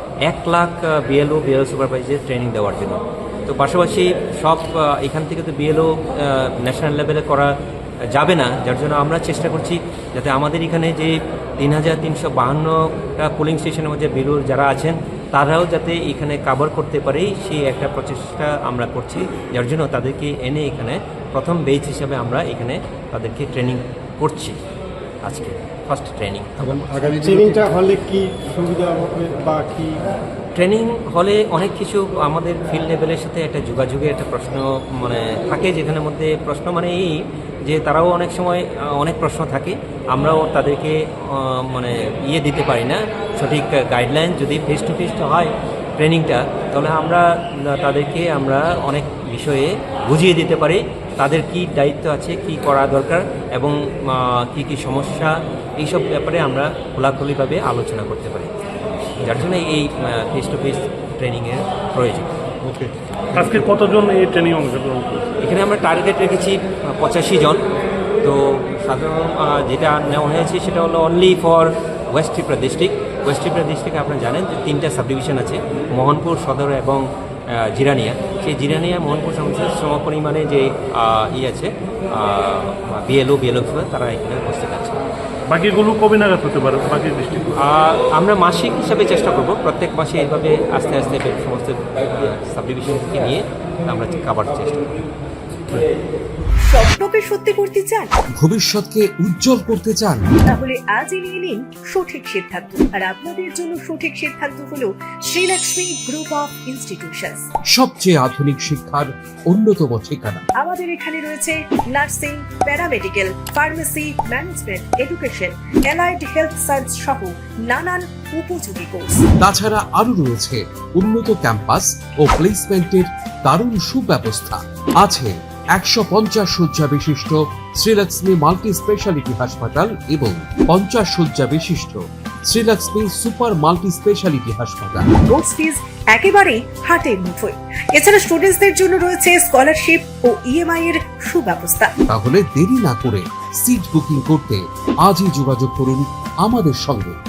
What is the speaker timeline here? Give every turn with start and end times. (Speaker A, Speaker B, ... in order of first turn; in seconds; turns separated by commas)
Speaker A: 0.2-7.5, Speaker A: 8.1-24.6, Speaker A: 25.2-26.8, Speaker B: 26.6-30.0, Speaker A: 30.6-58.5, Speaker A: 59.2-62.3, Speaker C: 62.6-65.2, Speaker A: 65.4-67.6, Speaker A: 68.2-85.0, Speaker C: 85.5-87.5, Speaker A: 87.6-94.8, Speaker D: 96.7-98.1, Speaker E: 98.4-100.3, Speaker D: 100.5-107.4, Speaker E: 107.7-110.4, Speaker D: 110.6-119.2, Speaker E: 119.4-135.1, Speaker D: 135.3-141.9, Speaker E: 142.1-147.1